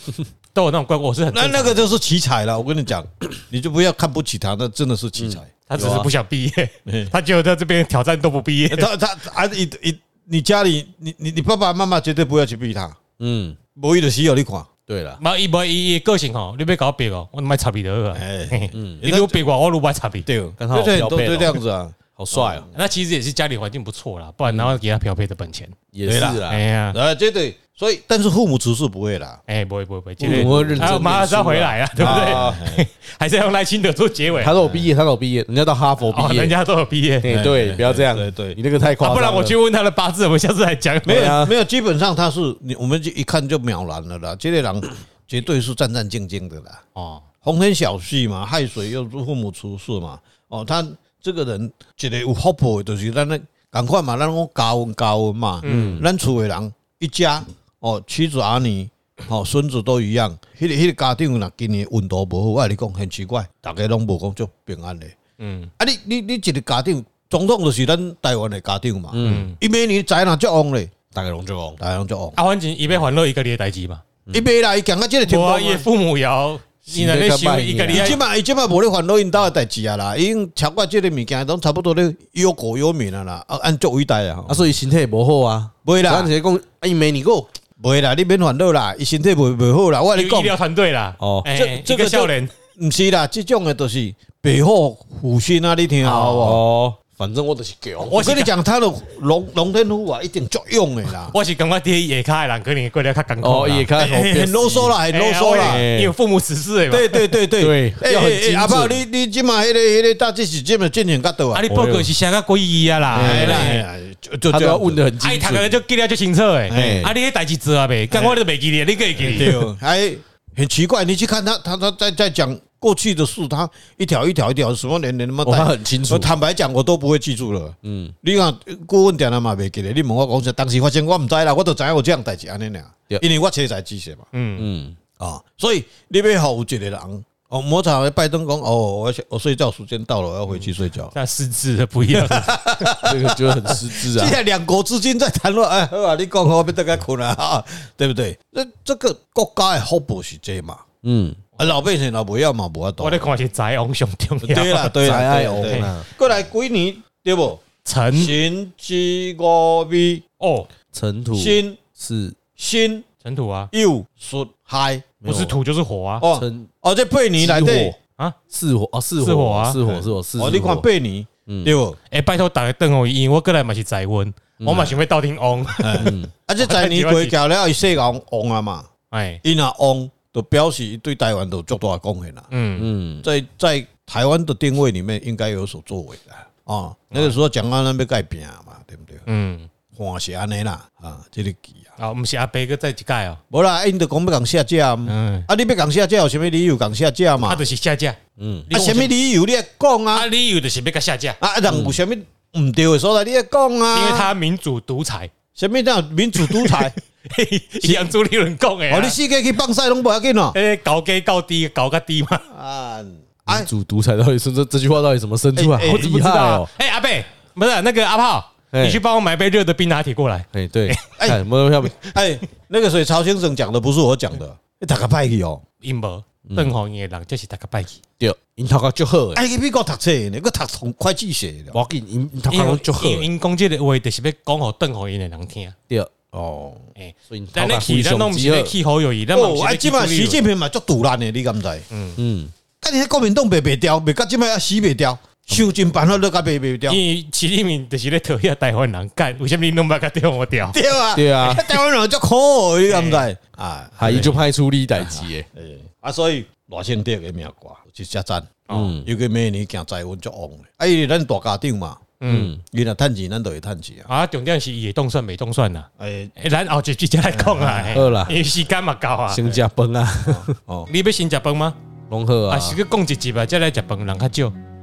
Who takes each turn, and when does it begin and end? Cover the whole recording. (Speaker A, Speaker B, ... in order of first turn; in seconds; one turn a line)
Speaker A: 0.5-1.9
Speaker B: 1.3-5.5
Speaker C: 5.2-6.1
Speaker A: 5.7-8.9
Speaker B: 6.9-7.1
Speaker B: 8.7-13.0
Speaker C: 13.2-13.6
Speaker B: 13.8-14.7
Speaker C: 14.9-15.2
Speaker A: 15.2-20.3
Speaker B: 18.1-19.4
Speaker C: 18.7-19.0
Speaker B: 20.2-22.7
Speaker C: 20.6-22.6
Speaker A: 22.7-25.7
Speaker C: 24.5-24.8
Speaker C: 25.9-26.6
Speaker B: 26.1-29.4
Speaker A: 26.5-27.0
Speaker A: 29.5-34.5
Speaker B: 30.2-31.4
Speaker C: 30.2-32.6
Speaker B: 31.9-32.8
Speaker C: 34.4-36.5
Speaker B: 34.6-34.8
Speaker A: 36.1-37.3
Speaker C: 37.2-39.5
Speaker B: 37.3-38.6
Speaker A: 39.0-41.4
Speaker C: 41.0-41.5
Speaker B: 41.0-46.8
Speaker A: 46.9-47.2
Speaker B: 47.4-65.2
Speaker A: 55.6-56.0
Speaker C: 55.6-56.1
Speaker A: 65.4-65.7
Speaker B: 65.8-70.9
Speaker C: 69.1-69.5
Speaker A: 69.2-69.6
Speaker C: 71.1-71.8
Speaker B: 71.8-72.4
Speaker A: 72.3-74.0
Speaker B: 74.3-75.9
Speaker A: 75.2-78.2
Speaker C: 76.9-78.2
Speaker B: 77.9-84.6
Speaker C: 84.5-87.5
Speaker B: 85.8-86.3
Speaker B: 87.8-90.5
Speaker A: 90.2-92.5
Speaker C: 91.2-91.5
Speaker B: 91.5-96.6
Speaker A: 96.0-96.5
Speaker C: 96.4-98.2
Speaker A: 98.1-98.5
Speaker B: 98.1-101.3
Speaker A: 101.3-103.9
Speaker C: 103.4-105.0
Speaker B: 103.9-105.8
Speaker A: 105.1-107.3
Speaker C: 105.6-106.1
Speaker B: 106.9-111.7
Speaker C: 107.6-109.0
Speaker A: 111.5-113.8
Speaker C: 111.7-112.1
Speaker C: 113.1-113.8
Speaker B: 113.1-115.0
Speaker C: 114.5-115.8
Speaker A: 115.2-119.6
Speaker B: 116.7-117.1
Speaker C: 116.7-117.1
Speaker B: 118.1-118.4
Speaker B: 119.2-134.2
Speaker C: 125.4-126.3
Speaker C: 127.8-128.2
Speaker A: 134.3-134.7
Speaker C: 134.6-135.0
Speaker B: 135.2-141.1
Speaker A: 140.5-143.0
Speaker B: 142.1-150.8
Speaker C: 143.0-144.4
Speaker C: 151.0-151.4
Speaker B: 151.6-153.3
Speaker A: 153.0-155.0
Speaker B: 154.4-160.2
Speaker C: 155.0-156.1
Speaker A: 155.7-155.9
Speaker A: 157.8-158.3
Speaker A: 160.4-160.7
Speaker C: 160.9-162.4
Speaker B: 161.3-161.8
Speaker B: 162.6-163.0
Speaker A: 163.2-163.7
Speaker B: 163.7-165.2
Speaker C: 165.2-165.6
Speaker A: 165.2-166.2
Speaker B: 166.2-167.9
Speaker C: 166.3-166.7
Speaker C: 167.4-167.9
Speaker C: 168.5-170.9
Speaker A: 169.2-169.8
Speaker B: 169.8-172.0
Speaker C: 171.5-171.7
Speaker A: 172.1-176.1
Speaker C: 174.6-175.0
Speaker B: 175.8-178.9
Speaker C: 176.0-176.3
Speaker A: 176.6-177.3
Speaker A: 179.1-179.4
Speaker B: 179.4-182.4
Speaker A: 182.5-182.9
Speaker C: 182.8-183.3
Speaker B: 183.2-189.2
Speaker A: 187.1-187.4
Speaker A: 189.3-189.7
Speaker B: 189.9-191.9
Speaker A: 192.0-193.4
Speaker B: 193.5-197.6
Speaker A: 195.1-195.5
Speaker A: 197.4-198.2
Speaker C: 198.4-198.7
Speaker A: 198.7-199.1
Speaker B: 198.7-200.2
Speaker A: 200.1-201.4
Speaker B: 201.4-204.3
Speaker C: 201.7-202.0
Speaker A: 203.9-205.3
Speaker B: 205.6-206.9
Speaker A: 206.3-209.2
Speaker B: 208.9-210.6
Speaker A: 210.5-212.4
Speaker B: 212.5-213.7
Speaker C: 213.5-216.7
Speaker B: 215.6-216.1
Speaker A: 215.9-221.2
Speaker C: 218.7-219.0
Speaker C: 220.5-221.9
Speaker B: 221.9-225.6
Speaker A: 225.8-228.0
Speaker C: 226.4-226.7
Speaker C: 228.2-229.4
Speaker B: 229.3-231.8
Speaker C: 231.7-233.3
Speaker A: 232.5-235.8
Speaker C: 235.9-236.8
Speaker A: 237.0-240.4
Speaker C: 237.3-238.7
Speaker B: 239.3-241.9
Speaker A: 241.9-242.2
Speaker C: 242.2-242.5
Speaker B: 242.8-247.0
Speaker A: 246.9-250.8
Speaker B: 250.7-254.4
Speaker C: 251.1-251.7
Speaker A: 252.9-253.2
Speaker C: 254.0-255.5
Speaker A: 254.1-254.3
Speaker B: 255.0-264.1
Speaker A: 258.7-258.9
Speaker C: 258.7-259.1
Speaker A: 262.2-262.5
Speaker C: 262.2-262.6
Speaker A: 264.1-269.4
Speaker B: 266.0-266.3
Speaker B: 267.3-268.2
Speaker C: 267.9-268.4
Speaker C: 269.3-270.5
Speaker B: 270.2-270.9
Speaker A: 270.9-271.8
Speaker C: 272.1-272.8
Speaker A: 272.5-274.5